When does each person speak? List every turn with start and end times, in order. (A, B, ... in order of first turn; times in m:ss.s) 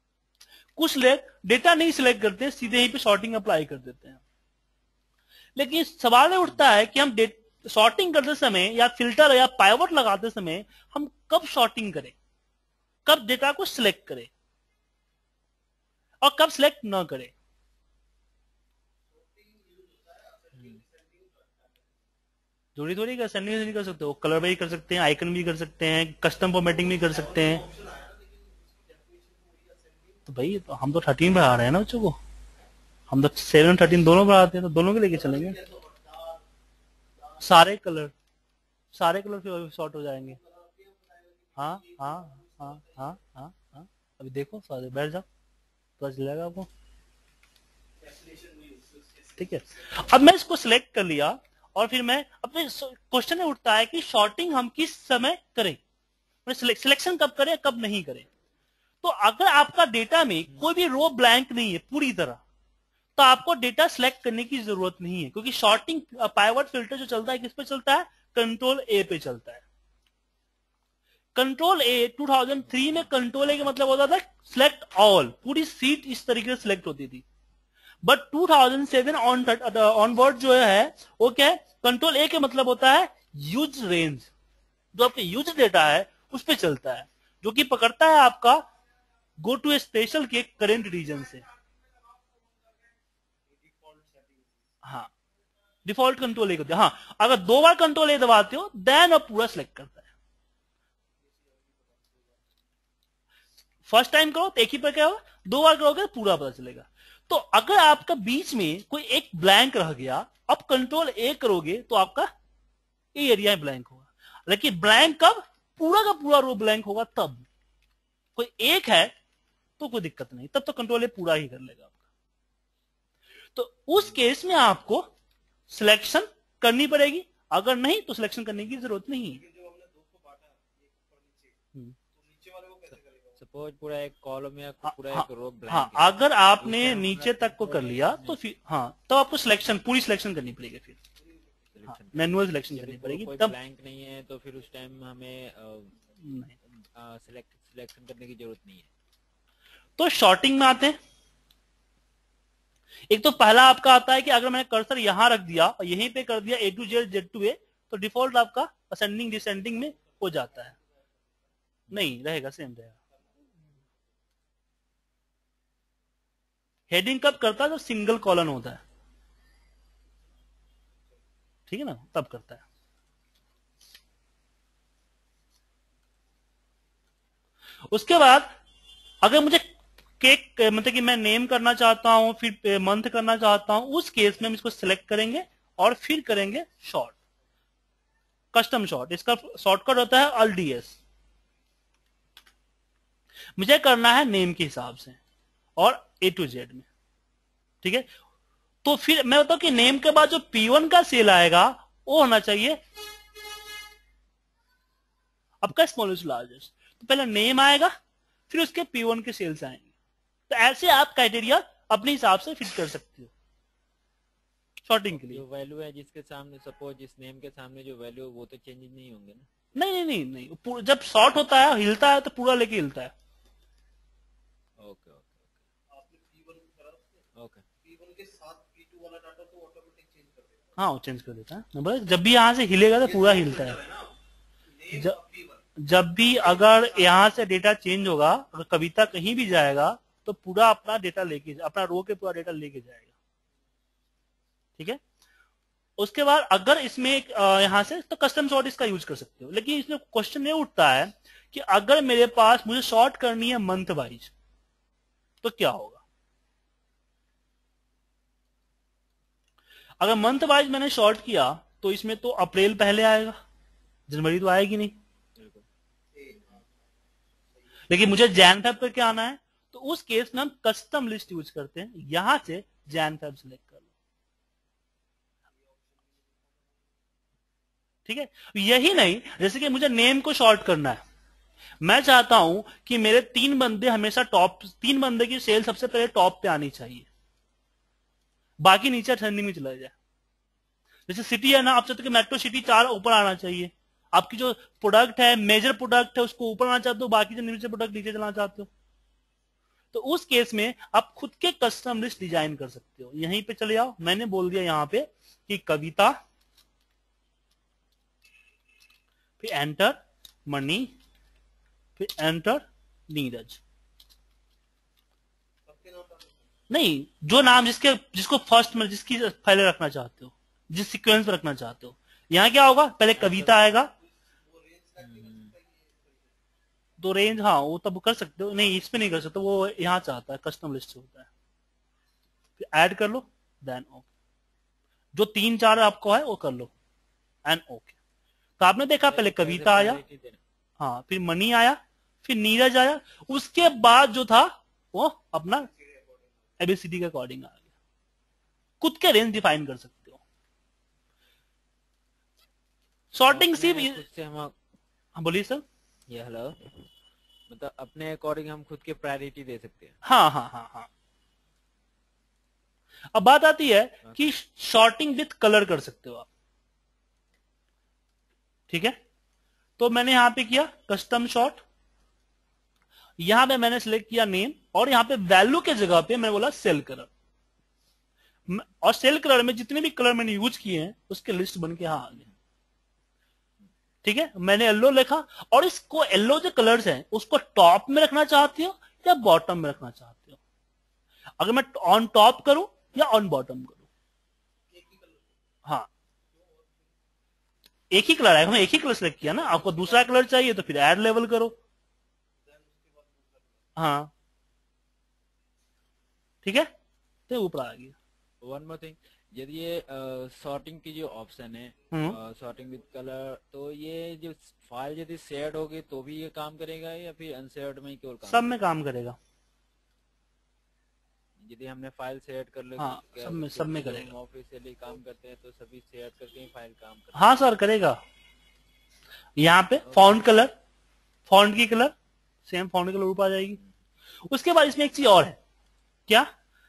0:00.8-0:04.2 A
0:05.6-0:12.2 A
0:13.1-0:14.3 A
0:16.2-0:17.3 A
0:19.1-0:22.0 B
0:20.6-0:20.8 C
0:22.8-0:27.6 A
0:26.8-0:30.3 B
0:30.3-0:32.2 A
0:33.1-0:35.6 A
0:35.1-0:36.4 B
0:37.2-0:37.4 B
0:37.4-0:38.1 A
0:38.9-0:40.4 A
0:40.2-0:43.2 B
0:41.6-0:45.3 A
0:46.0-0:46.7 A
0:48.0-0:50.0 B
0:49.4-0:55.8 A
0:56.5-0:58.3 A
0:59.0-1:02.4 A
1:03.2-1:09.6 A
1:11.4-1:17.2 A
1:12.7-1:13.1 C
1:18.0-1:24.3 A
1:24.9-1:28.6 A
1:29.4-1:31.4 A
1:33.5-1:34.7 B
1:34.8-1:35.1 A
1:35.8-1:40.1 A
1:41.2-1:42.5 B
1:43.9-1:52.3 A
1:53.1-1:57.5 A
1:58.4-1:59.1 A
1:59.8-2:02.0 A
2:03.6-2:05.1 A
2:05.7-2:09.4 A
2:09.3-2:13.4 B
2:13.4-2:18.4 C
2:14.8-2:21.0 A
2:21.2-2:21.8 B
2:21.8-2:26.0 C
2:21.9-2:23.5 A
2:26.2-2:26.5 A
2:26.7-2:28.9 C
2:30.0-2:31.0 A
2:33.1-2:40.7 A
2:39.5-2:41.5 B
2:41.9-2:43.0 A
2:43.1-2:43.6 B
2:46.9-2:48.8 A
2:51.7-2:52.6 A
2:57.9-2:58.5 A
2:59.2-2:59.6 A
3:00.2-3:07.2 A
3:08.5-3:11.0 A
3:13.6-3:15.2 A
3:15.8-3:16.9 A
3:17.8-3:18.1 A
3:18.8-3:22.8 A
3:25.6-3:27.9 A
3:28.5-3:29.9 A
3:30.5-3:33.3 A
3:34.8-3:35.4 A
3:35.1-3:39.5 C
3:39.8-3:43.1 A
3:44.8-3:45.6 C
3:45.9-3:47.3 B
3:47.4-3:47.6 C
3:47.8-3:50.8 B
3:50.8-3:53.8 A
3:53.0-3:54.1 B
3:54.7-3:55.7 B
3:55.8-4:03.1 A
3:56.4-3:57.4 B
4:06.0-4:14.3 A
4:15.4-4:16.0 A
4:20.0-4:23.4 A
4:24.1-4:25.0 A
4:25.4-4:25.7 C
4:26.1-4:26.8 B
4:27.6-4:28.0 B
4:27.9-4:33.9 A
4:35.5-4:37.0 B
4:38.1-4:41.0 A
4:41.8-4:47.1 A
4:48.6-4:49.9 A
4:51.1-4:58.7 A
4:59.9-5:06.2 A
5:09.4-5:10.9 A
5:12.0-5:13.6 A
5:15.7-5:16.5 B
5:16.7-5:23.9 A
5:23.2-5:23.6 C
5:23.7-5:26.4 B
5:25.0-5:25.5 C
5:27.0-5:31.3 A
5:32.6-5:34.1 A
5:35.1-5:36.7 A
5:37.5-5:38.0 A
5:38.6-5:40.0 A
5:39.0-5:40.4 C
5:40.8-5:45.7 A
5:45.5-5:46.6 B
5:46.6-5:47.6 A
5:48.8-5:50.2 A
5:53.1-5:54.0 A
5:53.3-5:54.6 C
5:55.2-5:55.6 A
5:56.1-5:56.9 C
5:57.5-6:00.0 C
6:00.0-6:00.9 A
6:03.2-6:06.3 A
6:08.7-6:09.0 A
6:09.8-6:11.6 A
6:13.2-6:17.1 A
6:18.5-6:22.2 A
6:24.0-6:30.4 A
6:31.4-6:33.8 A
6:34.7-6:35.5 B
6:36.3-6:36.9 B
6:37.9-6:41.6 A
6:39.3-6:40.1 B
6:42.4-6:43.8 B
6:43.8-6:44.1 A
6:46.4-6:46.7 A
6:47.3-6:48.0 A
6:48.4-6:58.5 C
6:51.9-6:52.2 A
6:52.2-6:52.9 B
6:58.3-6:59.2 A
7:01.4-7:07.4 C
7:02.8-7:04.1 A
7:07.2-7:08.0 A
7:09.4-7:10.5 A
7:09.9-7:10.2 C
7:11.3-7:11.9 A
7:12.4-7:13.6 A
7:14.3-7:15.4 A